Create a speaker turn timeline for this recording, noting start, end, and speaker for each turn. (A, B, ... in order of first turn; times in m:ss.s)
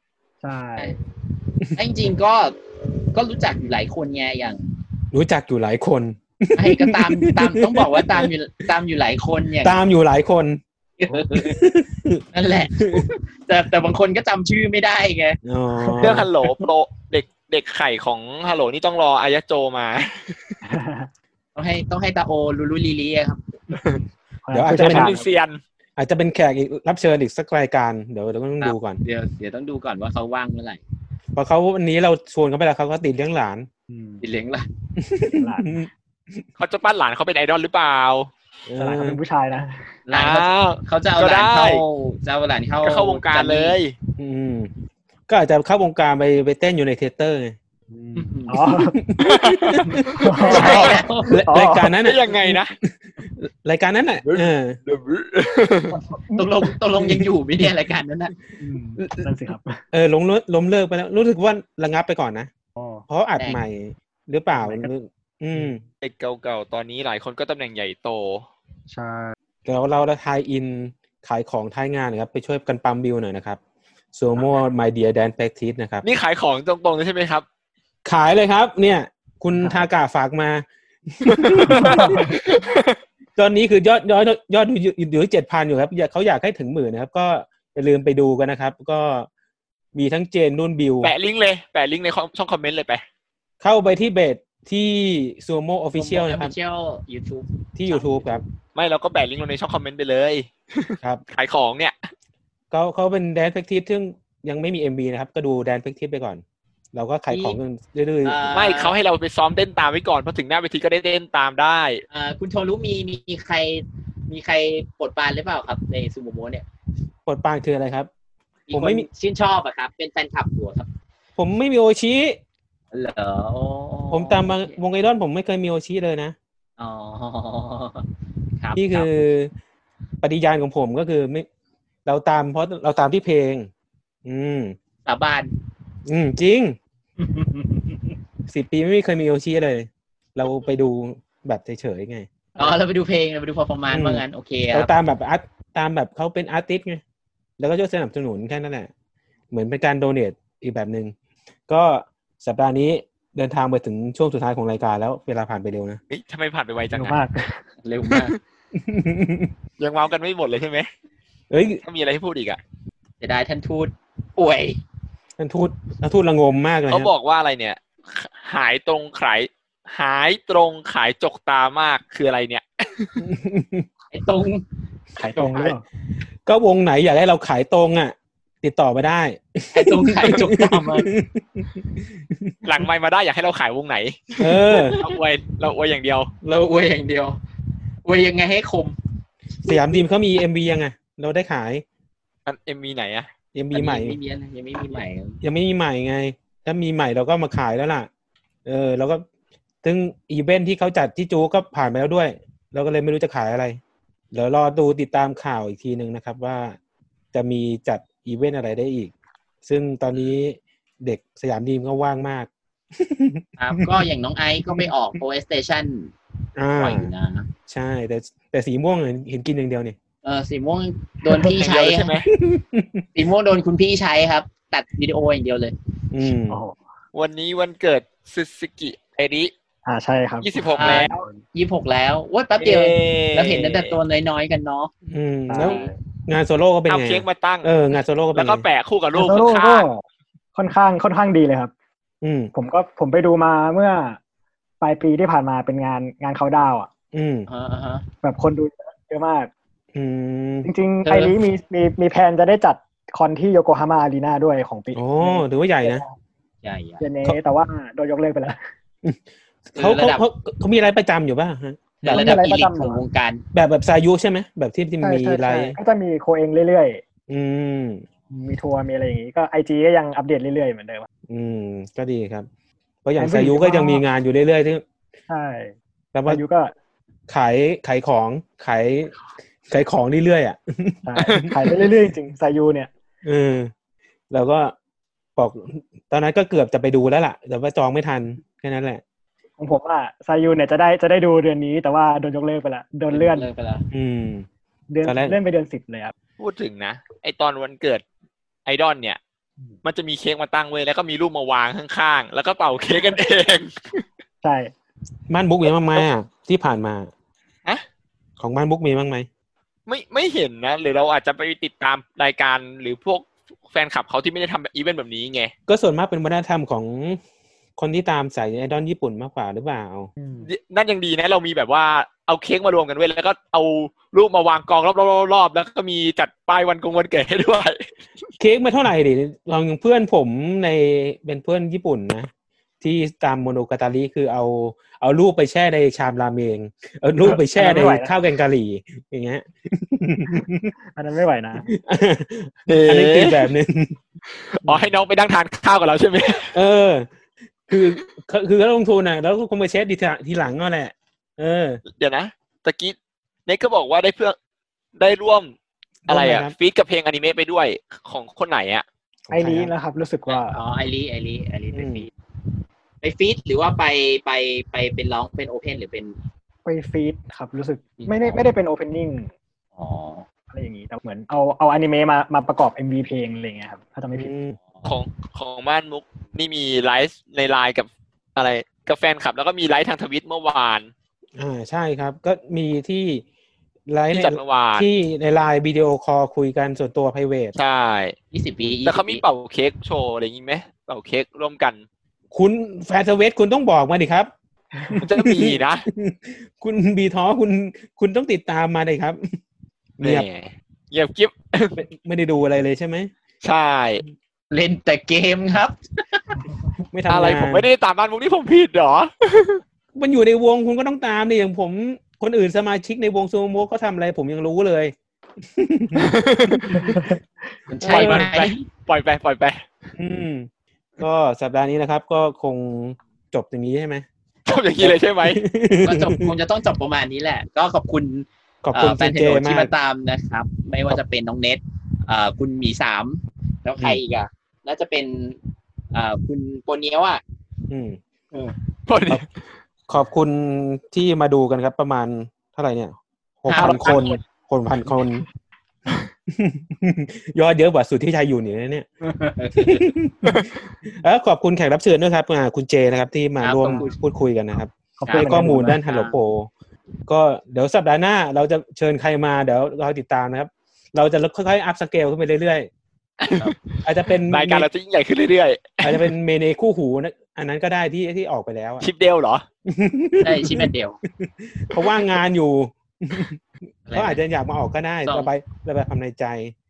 0:00.4-0:00.9 A
0:01.7-0:02.6 B
0:03.1-0:04.8 B
0:05.1-0:08.3 C
0:06.6-0:09.8 B
0:09.6-0:10.6 C
0:11.0-0:11.6 B
0:11.3-0:12.2 C
0:12.3-0:15.4 B
0:12.8-0:13.0 C
0:15.4-0:16.3 C
0:15.9-0:20.6 D
0:20.6-0:21.1 A
0:21.6-0:23.4 B
0:23.8-0:24.0 D
0:24.5-0:25.2 A
0:24.5-0:25.2 C
0:24.7-0:25.6 D
0:26.0-0:29.0 C
0:28.6-0:30.8 B
0:31.4-0:33.7 C
0:33.9-0:34.2 A
0:34.2-0:34.7 B
0:35.0-0:36.4 C
0:35.4-0:35.7 A
0:36.6-0:38.3 D
0:38.7-0:39.2 C
0:38.8-0:39.9 A
0:40.1-0:43.8 B
0:40.1-0:41.8 D
0:42.8-0:43.9 D
0:44.2-0:44.7 C
0:45.3-0:47.6 C
0:47.9-0:49.0 A
0:48.2-0:48.7 B
0:48.9-0:54.8 C
0:49.2-0:51.0 D
0:50.1-0:52.0 A
0:50.5-0:51.4 B
0:52.0-0:52.7 D
0:54.2-0:56.0 D
0:55.9-0:56.4 A
0:56.3-0:58.3 B
0:58.6-0:59.8 A
0:59.9-1:02.5 C
1:02.8-1:03.0 A
1:03.1-1:05.8 C
1:04.5-1:04.9 A
1:05.6-1:05.8 A
1:06.0-1:08.5 D
1:08.9-1:09.4 A
1:09.7-1:13.6 C
1:14.2-1:16.0 C
1:16.0-1:17.4 D
1:18.0-1:22.5 C
1:19.6-1:19.8 A
1:21.2-1:23.0 D
1:21.7-1:22.4 A
1:23.4-1:29.3 C
1:29.9-1:31.1 C
1:31.0-1:33.0 D
1:33.6-1:36.5 C
1:36.0-1:38.5 B
1:37.8-1:38.4 C
1:38.8-1:42.1 D
1:42.7-1:46.4 C
1:46.9-1:48.5 C
1:47.3-1:47.6 B
1:48.2-1:48.9 B
1:48.5-1:52.0 D
1:52.1-1:56.7 B
1:57.3-1:58.1 C
1:58.7-2:00.9 B
1:58.7-1:59.1 C
2:01.4-2:02.4 C
2:02.9-2:04.8 B
2:04.1-2:06.4 C
2:06.8-2:08.1 B
2:08.6-2:09.1 B
2:08.8-2:09.5 C
2:10.2-2:11.5 C
2:12.0-2:13.7 C
2:14.2-2:14.8 C
2:15.0-2:15.5 B
2:16.1-2:16.8 C
2:17.2-2:18.0 B
2:18.5-2:22.3 C
2:22.6-2:24.9 B
2:23.9-2:27.0 C
2:27.6-2:28.9 C
2:29.5-2:31.1 C
2:31.7-2:36.0 C
2:36.1-2:37.2 D
2:36.9-2:37.6 A
2:37.8-2:38.4 B
2:38.7-2:39.5 C
2:39.8-2:40.9 D
2:41.5-2:41.8 C
2:41.8-2:42.6 D
2:43.2-2:44.8 B
2:45.4-2:47.1 C
2:46.9-2:53.2 D
2:53.2-2:53.9 C
2:54.1-2:54.6 B
2:55.2-2:55.8 A
2:55.4-2:55.7 B
2:56.5-3:02.6 C
2:59.7-3:01.1 B
3:02.6-3:06.3 D
3:04.4-3:05.0 C
3:06.4-3:07.4 B
3:08.0-3:09.0 B
3:09.6-3:11.8 C
3:12.5-3:13.3 D
3:13.5-3:14.2 C
3:13.7-3:15.4 B
3:15.4-3:18.1 C
3:18.6-3:19.2 C
3:19.8-3:23.8 C
3:24.3-3:26.8 C
3:27.3-3:29.1 C
3:29.6-3:34.0 C
3:33.6-3:36.1 B
3:36.6-3:37.1 C
3:36.8-3:37.5 B
3:37.7-3:40.0 C
3:40.2-3:42.2 B
3:41.4-3:42.3 D
3:42.3-3:43.0 C
3:43.2-3:45.8 B
3:46.1-3:46.6 C
3:46.5-3:46.8 A
3:47.1-3:49.5 D
3:49.9-3:51.4 A
3:50.4-3:51.2 D
3:50.7-3:54.9 B
3:52.6-3:54.0 D
3:55.1-3:58.6 C
3:55.5-3:56.0 A
3:56.9-3:57.7 D
3:58.4-3:59.9 D
3:59.1-4:00.0 A
4:00.6-4:01.7 A
4:02.2-4:02.5 C
4:02.5-4:04.2 A
4:04.8-4:06.9 A
4:07.1-4:07.5 C
4:07.5-4:08.0 B
4:08.2-4:09.5 A
4:09.9-4:10.7 C
4:10.6-4:16.2 A
4:11.0-4:11.4 B
4:14.9-4:16.0 C
4:16.6-4:17.0 B
4:17.0-4:18.6 A
4:19.0-4:22.4 C
4:19.8-4:20.3 B
4:22.0-4:23.4 B
4:22.1-4:23.0 A
4:23.5-4:25.8 C
4:25.0-4:27.0 A
4:27.3-4:28.0 C
4:28.3-4:31.1 A
4:31.3-4:32.5 C
4:33.0-4:34.8 C
4:33.2-4:34.0 A
4:35.3-4:35.8 A
4:36.1-4:36.4 C
4:36.3-4:36.7 A
4:37.3-4:39.1 C
4:39.7-4:41.5 C
4:41.1-4:42.9 A
4:41.2-4:41.5 D
4:43.2-4:43.7 C
4:44.3-4:44.7 C
4:45.4-4:49.0 C
4:49.6-4:53.5 A
4:53.1-4:53.9 B
4:53.9-4:54.5 C
4:54.9-4:56.1 A
4:55.0-4:55.4 C
4:56.4-4:58.0 D
4:58.7-4:59.2 D
4:59.8-5:04.0 D
5:04.4-5:04.7 A
5:05.3-5:07.1 C
5:08.4-5:09.3 C
5:09.9-5:15.5 D
5:15.7-5:17.2 C
5:17.8-5:20.1 C
5:20.2-5:20.5 A
5:20.4-5:27.9 D
5:28.4-5:32.3 C
5:32.8-5:40.7 C
5:37.2-5:38.1 A
5:41.0-5:41.7 A
5:41.6-5:44.0 C
5:42.7-5:43.5 D
5:44.3-5:46.6 D
5:46.5-5:47.1 C
5:47.7-5:51.8 C
5:51.9-5:53.0 D
5:53.5-5:54.4 D
5:55.0-5:55.5 D
5:56.1-5:56.5 C
5:56.1-5:58.8 D
5:59.3-5:59.7 C
5:59.3-6:00.6 A
6:00.3-6:02.1 B
6:01.7-6:02.1 C
6:03.0-6:06.2 B
6:06.6-6:09.3 A
6:08.0-6:08.4 B
6:09.8-6:10.3 B
6:10.5-6:14.3 A
6:14.1-6:14.6 C
6:14.8-6:20.9 D
6:21.4-6:23.2 C
6:23.9-6:27.5 C
6:24.1-6:24.9 D
6:27.6-6:28.2 D
6:28.3-6:29.2 B
6:28.8-6:31.8 D
6:32.3-6:34.3 C
6:34.9-6:39.4 C
6:35.0-6:35.9 D
6:40.0-6:40.3 C
6:40.0-6:41.8 D
6:41.8-6:43.1 C
6:43.4-6:44.0 D
6:44.5-6:46.6 B
6:46.9-6:47.7 C
6:47.1-6:49.6 D
6:49.9-6:57.2 C
6:56.0-6:57.0 D
6:56.8-6:57.1 A
6:57.7-6:58.6 B
6:57.8-6:58.3 C
6:57.8-6:59.6 D
7:00.0-7:04.0 C
7:04.5-7:05.4 D
7:04.8-7:06.3 C
7:05.8-7:15.4 B
7:08.6-7:09.7 C
7:15.9-7:17.2 B
7:17.7-7:18.0 C
7:18.9-7:19.3 D
7:19.9-7:25.2 C
7:23.5-7:24.1 B
7:23.5-7:24.2 D
7:26.3-7:28.9 C
7:29.1-7:29.9 B
7:29.6-7:36.5 C
7:33.4-7:33.9 B
7:33.6-7:33.9 A
7:35.0-7:35.8 A
7:35.1-7:36.2 B
7:37.1-7:42.7 C
7:43.2-7:46.1 D
7:43.8-7:44.7 C
7:45.8-7:48.9 C
7:48.8-7:49.5 D
7:49.7-7:53.4 C
7:50.2-7:51.0 B
7:53.9-7:54.2 B
7:53.9-7:56.5 C